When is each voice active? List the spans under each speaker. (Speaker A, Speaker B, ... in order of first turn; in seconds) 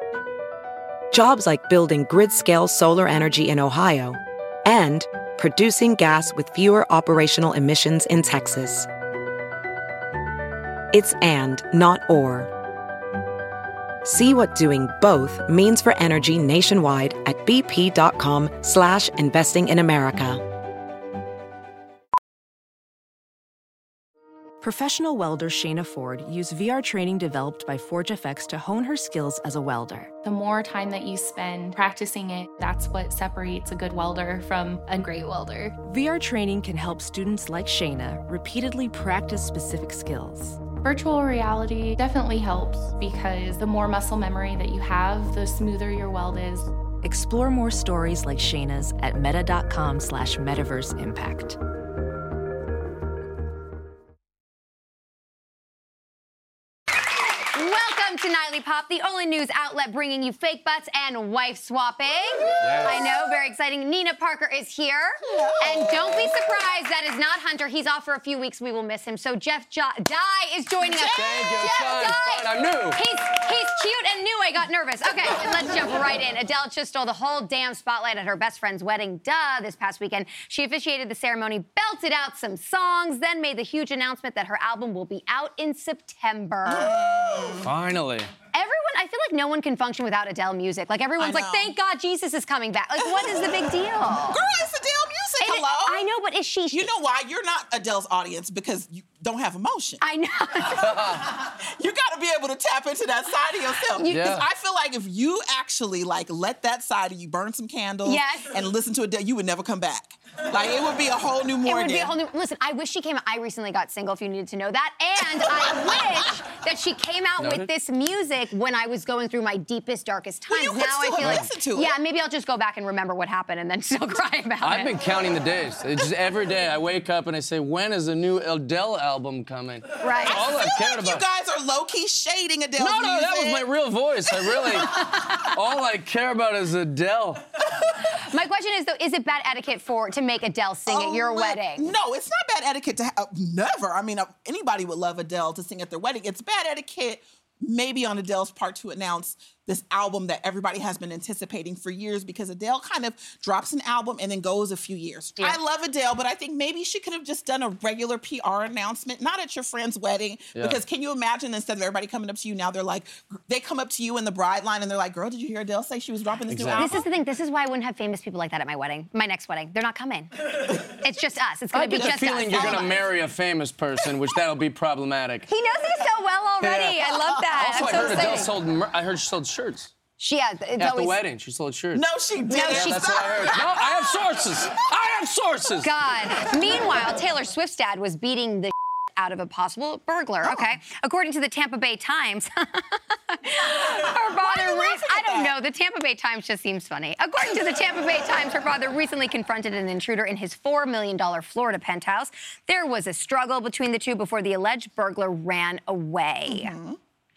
Speaker A: 1.1-8.9, 10.9-12.5, 14.0-20.4
Speaker B: 24.6-30.1, 35.8-40.6, 47.0-51.6
Speaker C: 30.2-35.8, 40.7-46.7
Speaker D: 57.5-87.0, 88.5-94.4, 95.4-96.9, 100.0-101.0, 103.9-104.2, 108.0-108.6, 111.7-124.9, 130.0-130.4, 138.0-141.9, 166.8-173.0, 175.5-178.5, 180.2-181.2, 182.5-183.1, 185.8-206.8
Speaker E: 62.6-62.9, 65.2-66.4, 70.8-71.7, 86.7-87.7, 91.2-91.7, 93.0-93.5, 94.3-96.1, 96.7-100.0, 101.2-112.1, 115.2-116.3, 120.5-122.0, 130.3-133.7, 134.3-135.3, 140.9-167.1, 171.8-173.0, 177.1-177.4, 181.9-184.3, 190.4-190.7, 193.8-195.5, 206.5-207.0
Speaker F: 71.1-73.0, 87.6-88.3, 100.8-101.3, 104.1-104.5, 117.4-117.7, 124.6-131.2, 132.8-137.4, 166.5-166.9, 171.7-175.5, 176.6-179.9, 180.8-182.1, 182.7-185.9